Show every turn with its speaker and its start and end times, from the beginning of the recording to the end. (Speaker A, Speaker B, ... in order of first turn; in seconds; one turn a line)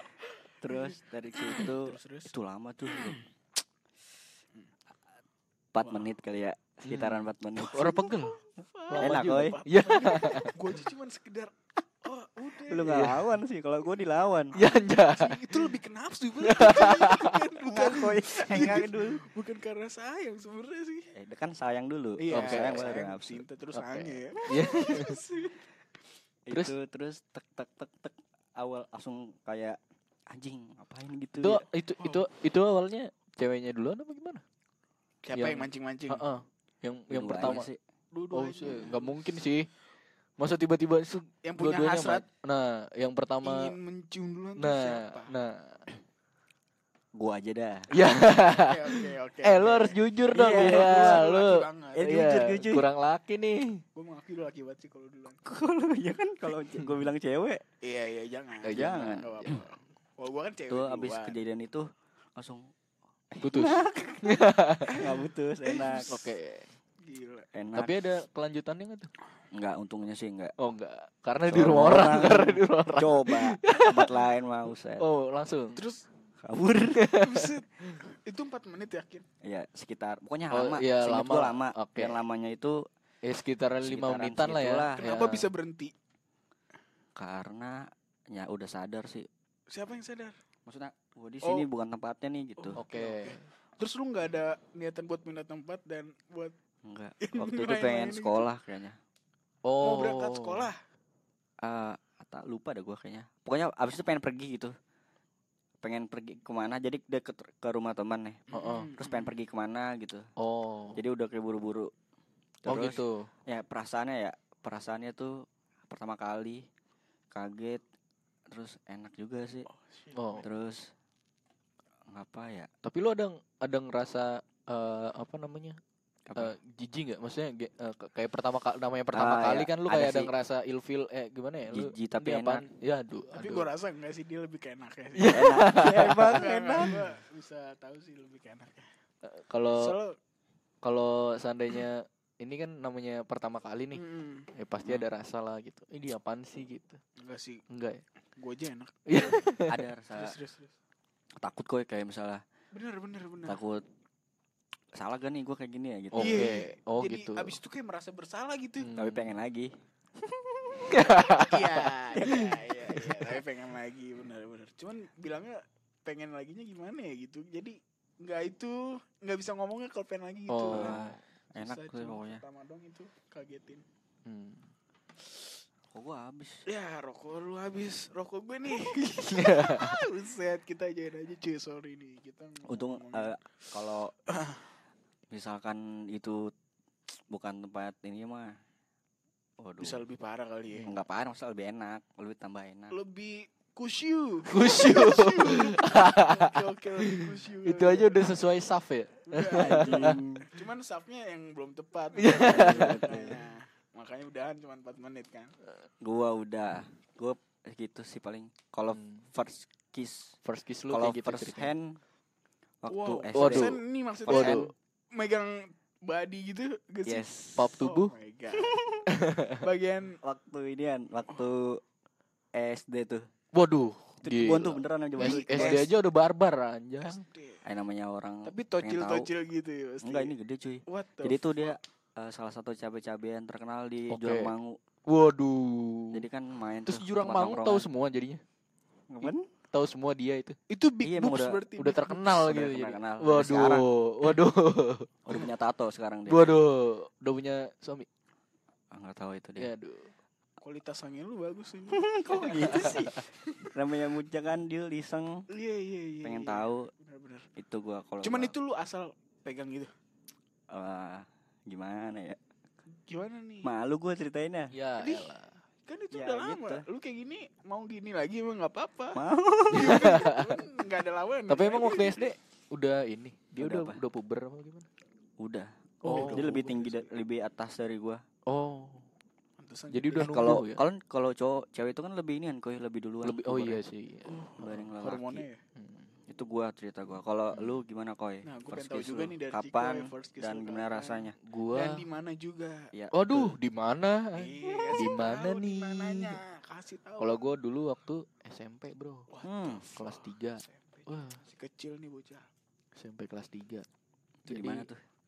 Speaker A: 0.6-3.2
Speaker B: 0.7-2.3
Speaker B: 2.9-3.2
Speaker A: 5.7-7.9
Speaker B: 5.8-6.1
Speaker C: 6.8-8.4
Speaker B: 7.6-13.1
Speaker C: 8.9-10.6
Speaker A: 9.0-9.6
Speaker A: 12.7-14.5
Speaker C: 12.9-13.2
Speaker C: 14.5-15.7
Speaker B: 15.1-21.1
Speaker C: 16.4-17.4
Speaker A: 17.7-19.2
Speaker A: 21.1-23.4
Speaker B: 22.2-25.6
Speaker C: 22.3-22.9
Speaker C: 23.7-25.2
Speaker A: 26.5-29.8
Speaker A: 30.3-31.6
Speaker C: 31.4-34.4
Speaker B: 32.0-32.3
Speaker B: 35.2-36.2
Speaker C: 35.3-37.7
Speaker A: 37.1-37.8
Speaker B: 38.1-39.3
Speaker C: 38.3-39.7
Speaker C: 40.4-43.8
Speaker B: 41.4-42.2
Speaker B: 43.4-45.3
Speaker C: 44.6-45.8
Speaker A: 47.1-47.9
Speaker C: 47.9-53.8
Speaker B: 48.2-52.2
Speaker A: 50.3-51.3
Speaker A: 52.0-52.9
Speaker B: 53.9-55.4
Speaker A: 55.4-57.6
Speaker B: 57.8-61.4
Speaker C: 58.6-59.6
Speaker A: 58.7-59.5
Speaker A: 60.7-62.7
Speaker A: 63.3-64.3
Speaker C: 63.4-65.0
Speaker B: 64.9-66.3
Speaker A: 65.0-66.2
Speaker C: 66.1-66.7
Speaker B: 67.0-67.5
Speaker A: 67.5-68.0
Speaker C: 67.8-69.1
Speaker A: 69.5-70.5
Speaker C: 70.6-74.2
Speaker A: 71.5-75.0
Speaker C: 75.0-75.8
Speaker B: 75.8-76.1
Speaker A: 76.4-77.1
Speaker C: 76.9-77.5
Speaker B: 77.2-79.2
Speaker A: 79.4-82.8
Speaker C: 80.5-82.2
Speaker C: 83.2-85.5
Speaker A: 83.8-85.0
Speaker B: 84.9-85.9
Speaker A: 87.2-89.3
Speaker B: 89.7-90.3
Speaker A: 90.7-92.8
Speaker B: 91.4-91.7
Speaker B: 92.6-96.5
Speaker C: 92.8-93.4
Speaker A: 96.8-99.0
Speaker B: 97.2-98.5
Speaker C: 99.6-100.7
Speaker B: 99.8-100.8
Speaker A: 101.6-104.7
Speaker A: 105.8-108.4
Speaker B: 108.5-109.3
Speaker C: 108.5-108.9
Speaker A: 109.0-110.3
Speaker C: 110.4-111.0
Speaker A: 110.9-111.9
Speaker A: 112.6-116.6
Speaker C: 112.7-113.3
Speaker A: 117.3-117.8
Speaker A: 118.5-119.7
Speaker B: 119.7-120.4
Speaker C: 120.1-120.5
Speaker A: 120.4-120.9
Speaker A: 122.1-122.7
Speaker C: 122.8-125.8
Speaker A: 126.3-126.5
Speaker C: 126.4-133.7
Speaker A: 129.1-130.3
Speaker A: 131.7-132.7
Speaker B: 133.3-138.9
Speaker C: 135.1-136.4
Speaker A: 135.3-137.0
Speaker C: 139.2-139.9
Speaker B: 139.7-140.2
Speaker C: 140.8-147.0
Speaker B: 143.9-144.5
Speaker A: 144.8-145.1
Speaker B: 147.2-147.6
Speaker C: 147.7-148.0
Speaker B: 148.4-149.4
Speaker C: 149.1-149.8
Speaker A: 149.7-150.3
Speaker B: 150.1-150.7
Speaker A: 151.4-152.4
Speaker B: 152.7-153.6
Speaker A: 153.4-153.8
Speaker A: 154.9-156.6
Speaker C: 156.1-157.6
Speaker B: 156.1-158.9
Speaker C: 158.8-159.3
Speaker A: 158.9-161.4
Speaker C: 160.9-161.8
Speaker B: 161.1-173.8
Speaker A: 162.1-163.0
Speaker C: 170.5-171.2
Speaker A: 170.7-172.4
Speaker C: 174.2-174.7
Speaker A: 175.9-176.7
Speaker B: 176.7-183.3
Speaker C: 179.3-180.0
Speaker A: 182.7-184.2
Speaker B: 184.3-184.7
Speaker A: 185.3-186.5
Speaker A: 187.3-188.5
Speaker A: 189.6-190.0
Speaker B: 189.8-190.9
Speaker A: 190.8-192.9
Speaker B: 192.9-198.3
Speaker C: 194.5-196.5
Speaker C: 197.0-200.2
Speaker B: 199.3-205.5
Speaker A: 199.6-200.4
Speaker C: 202.2-203.3
Speaker A: 202.3-203.4
Speaker A: 206.0-210.3
Speaker C: 208.9-209.3
Speaker C: 210.4-211.7
Speaker A: 210.9-212.0
Speaker A: 212.8-214.7
Speaker B: 212.8-217.3
Speaker C: 213.3-214.7
Speaker A: 217.1-217.8
Speaker C: 217.6-218.1
Speaker B: 217.8-218.8
Speaker A: 218.5-219.0
Speaker C: 219.1-219.6
Speaker B: 219.6-220.2
Speaker A: 220.2-221.8
Speaker A: 222.5-223.2
Speaker C: 223.5-227.2
Speaker A: 224.2-225.8
Speaker B: 225.2-225.9
Speaker B: 227.0-227.6
Speaker A: 227.6-229.3
Speaker B: 228.4-230.3
Speaker A: 230.0-234.8
Speaker B: 230.9-231.8
Speaker C: 234.1-234.5
Speaker C: 235.1-236.2
Speaker A: 236.1-237.9
Speaker C: 236.8-238.4
Speaker A: 239.1-239.4
Speaker C: 239.7-240.6
Speaker B: 240.7-242.4
Speaker A: 241.0-241.6
Speaker C: 241.8-245.5
Speaker A: 242.4-243.9
Speaker A: 245.2-246.6
Speaker C: 246.3-248.1
Speaker A: 248.9-249.7
Speaker C: 249.6-250.1
Speaker B: 250.6-253.1
Speaker A: 251.9-255.4
Speaker B: 255.5-257.5
Speaker A: 256.2-256.9
Speaker A: 257.6-258.5
Speaker B: 258.2-259.9
Speaker A: 260.7-262.4
Speaker B: 262.9-263.7
Speaker A: 263.6-264.7
Speaker C: 264.7-265.6
Speaker B: 265.0-265.3
Speaker B: 265.9-269.2
Speaker A: 266.1-266.8
Speaker A: 269.1-270.0
Speaker B: 269.7-272.3
Speaker C: 269.7-270.6
Speaker C: 271.5-274.9
Speaker A: 273.6-274.0
Speaker A: 275.4-278.2
Speaker C: 276.0-276.6
Speaker B: 276.0-277.2
Speaker C: 278.5-279.1
Speaker B: 279.6-280.5
Speaker C: 279.9-280.8
Speaker A: 280.1-283.8
Speaker C: 283.2-284.8
Speaker B: 284.3-285.6
Speaker A: 284.6-285.4
Speaker C: 285.8-286.1
Speaker A: 286.3-291.3
Speaker B: 288.4-292.8
Speaker C: 291.5-292.0
Speaker A: 292.9-293.5
Speaker C: 293.1-296.4
Speaker B: 294.3-297.5
Speaker C: 297.2-299.3
Speaker B: 299.3-302.5
Speaker A: 299.4-299.8
Speaker C: 299.9-301.4
Speaker C: 302.9-303.9
Speaker A: 304.4-305.0
Speaker C: 304.5-304.9